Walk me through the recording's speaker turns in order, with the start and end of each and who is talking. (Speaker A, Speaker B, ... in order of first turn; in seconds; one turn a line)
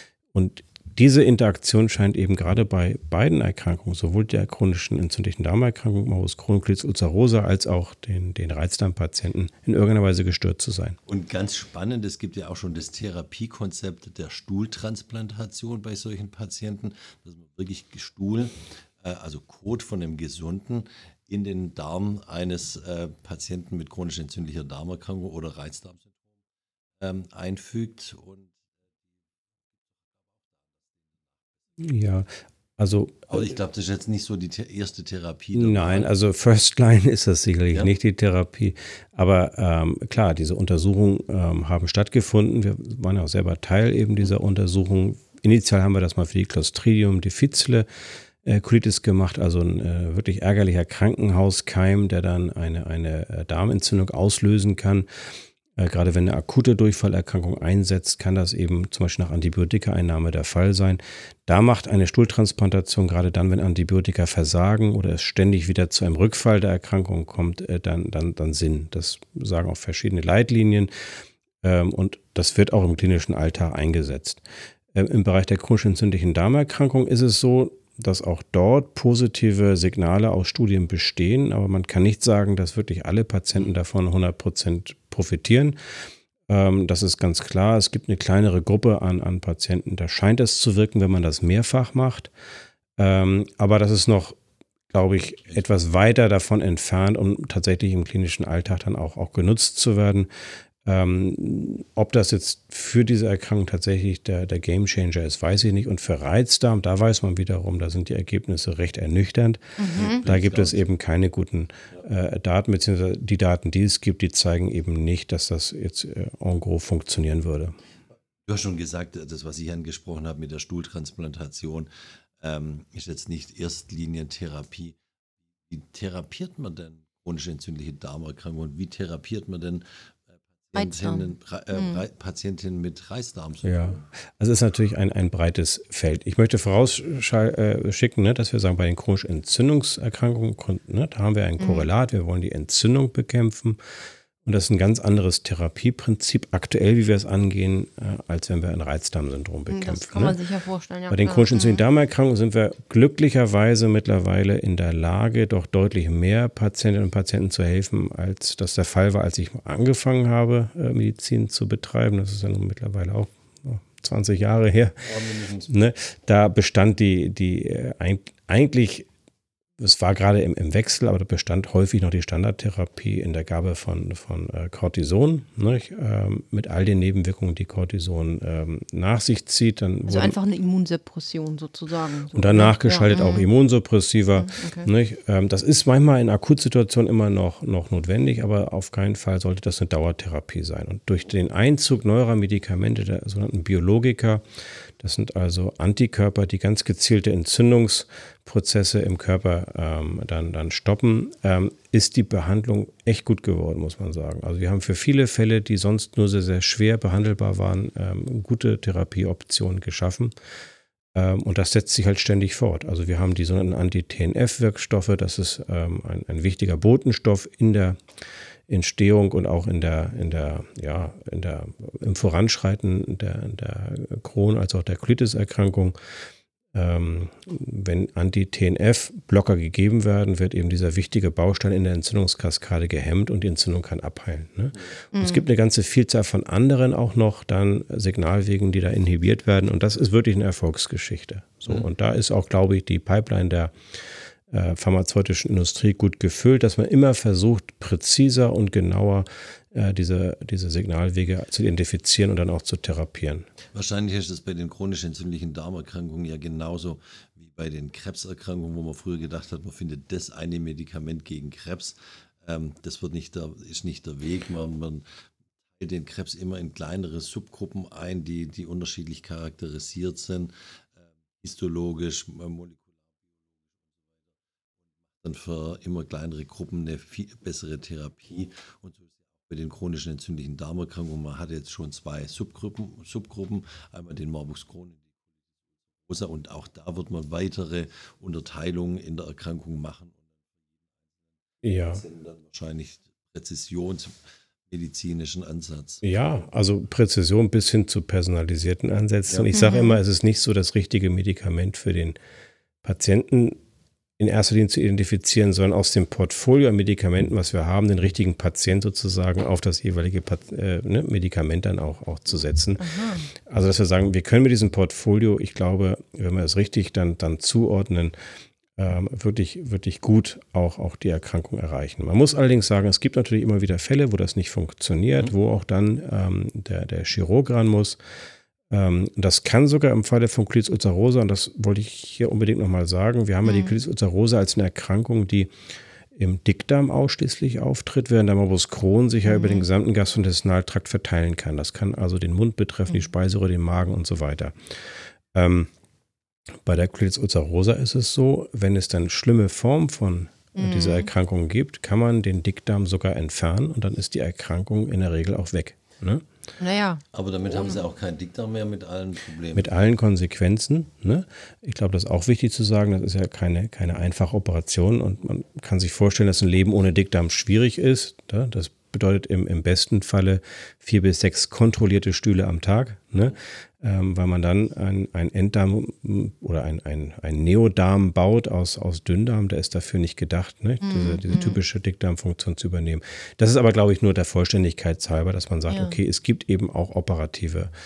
Speaker A: 0.3-11.0
Speaker B: 11.1-26.2
Speaker B: 27.0-28.6
Speaker B: 29.9-31.4
Speaker A: 31.8-33.5
Speaker B: 33.3-36.1
Speaker A: 35.5-47.9
Speaker A: 48.4-55.1
Speaker A: 55.8-70.9
Speaker A: 71.6-74.4
Speaker A: 74.9-85.8
Speaker A: 86.5-92.3
Speaker A: 93.0-94.4
Speaker A: 94.9-100.3
Speaker A: 100.8-117.8
Speaker C: 109.8-110.2
Speaker B: 109.9-110.8
Speaker B: 118.5-125.0
Speaker B: 125.7-134.1
Speaker C: 130.8-132.0
Speaker A: 133.7-143.8
Speaker C: 141.6-141.9
Speaker A: 144.4-150.4
Speaker C: 149.7-151.8
Speaker A: 151.1-165.0
Speaker B: 165.0-165.7
Speaker A: 165.7-169.1
Speaker A: 169.8-180.4
Speaker C: 180.1-183.5
Speaker A: 182.3-194.4
Speaker C: 184.3-184.9
Speaker A: 195.0-210.3
Speaker A: 211.1-218.0
Speaker A: 218.7-225.9
Speaker A: 226.7-253.5
Speaker C: 235.1-235.5
Speaker B: 253.7-265.1
Speaker B: 265.8-270.7
Speaker B: 271.4-272.9
Speaker B: 275.2-285.1
Speaker B: 286.0-291.1
Speaker A: 291.6-292.0
Speaker B: 291.8-296.0
Speaker A: 296.0-302.2
Speaker C: 299.5-300.0
Speaker A: 302.8-303.6
Speaker A: 304.2-318.1
Speaker C: 312.8-313.3
Speaker A: 318.8-328.0
Speaker A: 328.7-335.5
Speaker C: 333.4-333.7
Speaker A: 336.1-345.7
Speaker C: 339.2-339.7
Speaker A: 346.6-356.2
Speaker C: 350.6-351.1
Speaker C: 356.6-357.8
Speaker B: 357.1-359.7
Speaker A: 359.6-387.7
Speaker C: 380.8-381.6
Speaker C: 385.7-386.0